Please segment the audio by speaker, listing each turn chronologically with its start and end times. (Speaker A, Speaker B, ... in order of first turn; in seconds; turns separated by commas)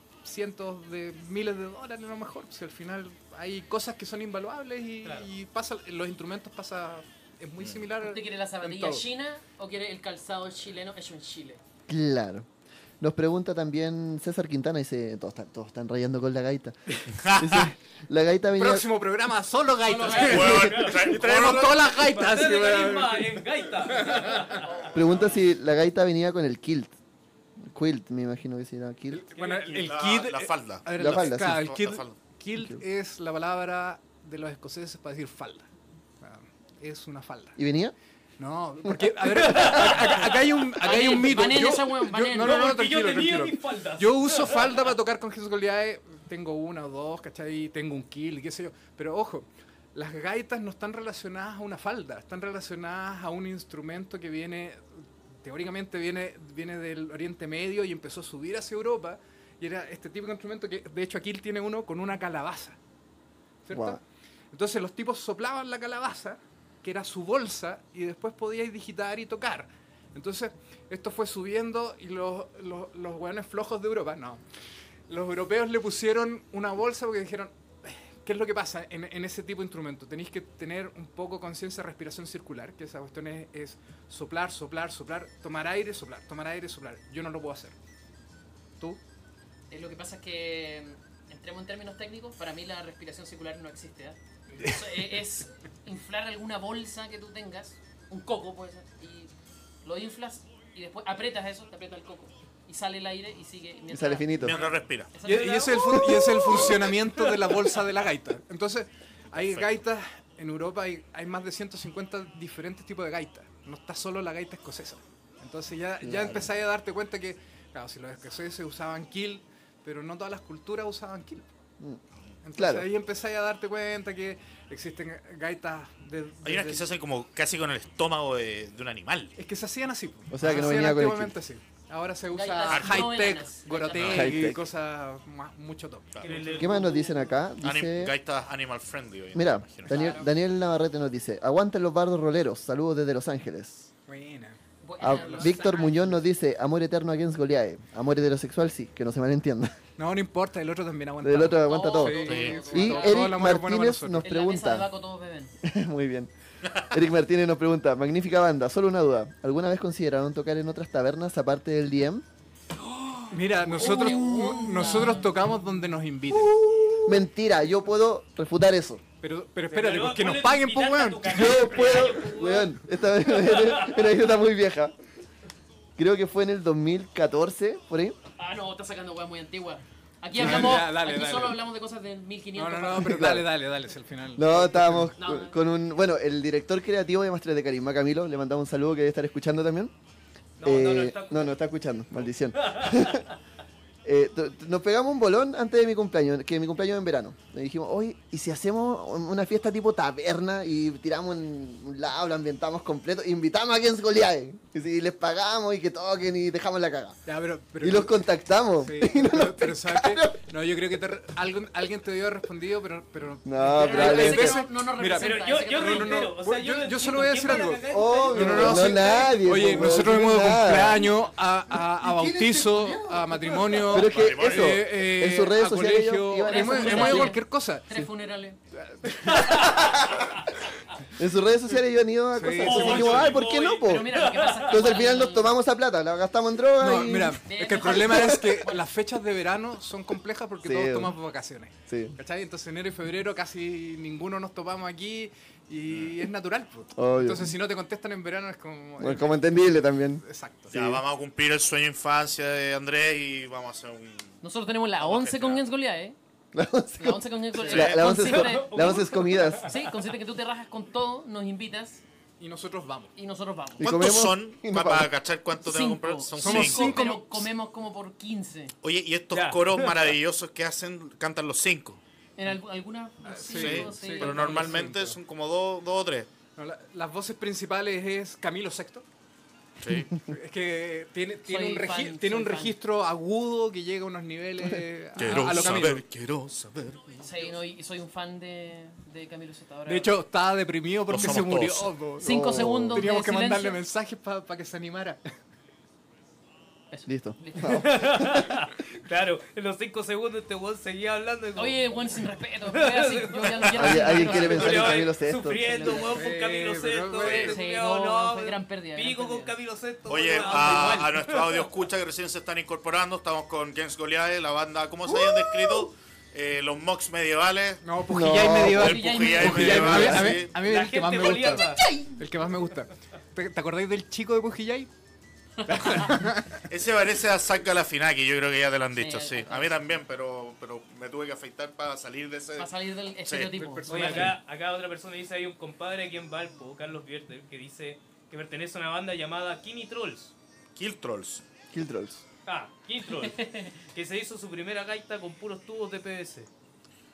Speaker A: 0.2-9.1, Speaker B: 8.0-11.6, Speaker C: 11.9-12.5, Speaker C: 13.0-18.9, Speaker D: 17.1-17.7, Speaker A: 18.6-24.6, Speaker B: 19.8-20.6, Speaker D: 20.2-22.0, Speaker C: 20.4-20.6, Speaker E: 20.4-21.1, Speaker E: 21.9-24.9, Speaker B: 24.6-25.3, Speaker C: 24.9-26.9, Speaker C: 27.6-29.2, Speaker A: 29.1-35.7, Speaker E: 29.4-29.9, Speaker D: 29.7-32.2, Speaker C: 30.9-31.7, Speaker A: 36.2-37.6, Speaker C: 37.6-37.9, Speaker A: 38.4-62.8, Speaker E: 39.6-40.2, Speaker B: 40.8-42.6, Speaker E: 42.4-44.8, Speaker A: 63.6-74.4, Speaker C: 63.7-64.0, Speaker A: 75.1-87.8, Speaker B: 89.7-99.3, Speaker A: 94.6-95.1, Speaker B: 99.8-106.4, Speaker C: 103.9-104.6, Speaker D: 104.4-105.1, Speaker A: 105.2-121.5, Speaker D: 109.3-109.7, Speaker C: 116.0-116.5, Speaker A: 122.4-126.9, Speaker C: 122.6-122.9, Speaker D: 126.5-129.3, Speaker A: 129.4-136.9, Speaker C: 130.3-131.3, Speaker B: 132.3-134.4, Speaker D: 132.7-133.2, Speaker D: 133.9-134.4, Speaker C: 134.0-134.6, Speaker D: 136.1-136.5, Speaker E: 136.2-137.0, Speaker C: 136.6-138.1, Speaker B: 136.8-137.2, Speaker D: 137.6-140.1, Speaker C: 139.3-143.9, Speaker B: 139.9-140.3, Speaker A: 144.1-145.6, Speaker B: 144.8-146.2, Speaker C: 145.0-149.8, Speaker A: 150.0-154.3, Speaker C: 151.2-154.9, Speaker B: 151.6-153.4, Speaker D: 152.2-152.7, Speaker B: 154.2-155.5, Speaker C: 155.6-162.2, Speaker A: 163.3-167.0, Speaker B: 163.7-165.3, Speaker C: 163.8-164.7, Speaker C: 167.0-169.0, Speaker A: 169.2-171.7, Speaker E: 169.7-174.1, Speaker C: 171.3-174.9, Speaker C: 176.0-178.2, Speaker B: 178.4-183.3, Speaker A: 180.3-181.6, Speaker A: 182.6-185.1, Speaker C: 183.0-183.5, Speaker C: 184.4-189.9, Speaker B: 185.2-185.6, Speaker E: 190.6-191.6, Speaker C: 190.6-193.3, Speaker E: 192.5-193.2, Speaker C: 194.1-207.2, Speaker A: 207.3-208.2, Speaker C: 207.8-210.4, Speaker A: 208.8-227.9, Speaker C: 213.4-214.6, Speaker B: 213.8-216.3, Speaker E: 215.1-219.4, Speaker C: 217.9-221.1, Speaker C: 222.0-227.4, Speaker D: 224.0-224.8, Speaker B: 226.4-228.6, Speaker A: 228.8-230.0, Speaker E: 229.4-229.8, Speaker C: 231.2-237.4, Speaker A: 232.3-233.4, Speaker E: 232.6-235.0, Speaker B: 232.7-233.1, Speaker B: 233.8-235.6, Speaker A: 236.8-250.8, Speaker B: 237.4-238.9, Speaker C: 238.1-238.4, Speaker C: 240.6-241.2, Speaker C: 241.9-242.2, Speaker D: 245.9-246.2, Speaker C: 247.0-247.5, Speaker C: 249.0-251.0, Speaker D: 250.7-254.4, Speaker B: 254.4-256.2, Speaker D: 255.0-255.6, Speaker C: 256.5-259.7, Speaker B: 257.0-262.0, Speaker D: 257.6-258.1, Speaker E: 258.1-259.9, Speaker A: 262.4-263.1, Speaker B: 263.2-263.9, Speaker C: 263.8-265.1, Speaker D: 263.8-267.0, Speaker B: 265.6-268.7, Speaker A: 266.4-267.5, Speaker D: 268.8-272.0, Speaker E: 269.3-270.1, Speaker B: 272.4-274.9, Speaker A: 273.2-275.2, Speaker D: 273.5-276.3, Speaker A: 276.6-279.1, Speaker D: 279.8-280.2, Speaker A: 280.2-286.1, Speaker B: 281.5-282.8, Speaker D: 285.2-287.2, Speaker B: 287.2-290.1, Speaker A: 289.9-295.2, Speaker D: 291.1-291.9, Speaker C: 292.2-293.0, Speaker B: 292.2-293.8, Speaker B: 296.9-298.1, Speaker C: 297.1-298.5, Speaker E: 297.7-301.8, Speaker B: 301.6-305.1, Speaker E: 302.7-311.7, Speaker C: 303.8-305.8, Speaker B: 305.6-306.2, Speaker A: 305.8-307.6, Speaker B: 307.2-309.5, Speaker D: 310.1-317.8, Speaker B: 310.3-311.1, Speaker A: 317.8-324.9, Speaker C: 318.1-320.4, Speaker D: 318.5-320.6, Speaker B: 318.7-320.3, Speaker E: 320.6-321.8, Speaker A: 325.6-326.6, Speaker B: 325.7-326.1, Speaker D: 326.7-332.7, Speaker B: 329.0-329.8, Speaker B: 332.6-334.4, Speaker D: 333.2-333.6, Speaker A: 333.5-334.4, Speaker E: 333.9-340.3, Speaker D: 340.8-341.4, Speaker C: 341.7-342.2, Speaker E: 342.5-346.5, Speaker B: 343.3-343.7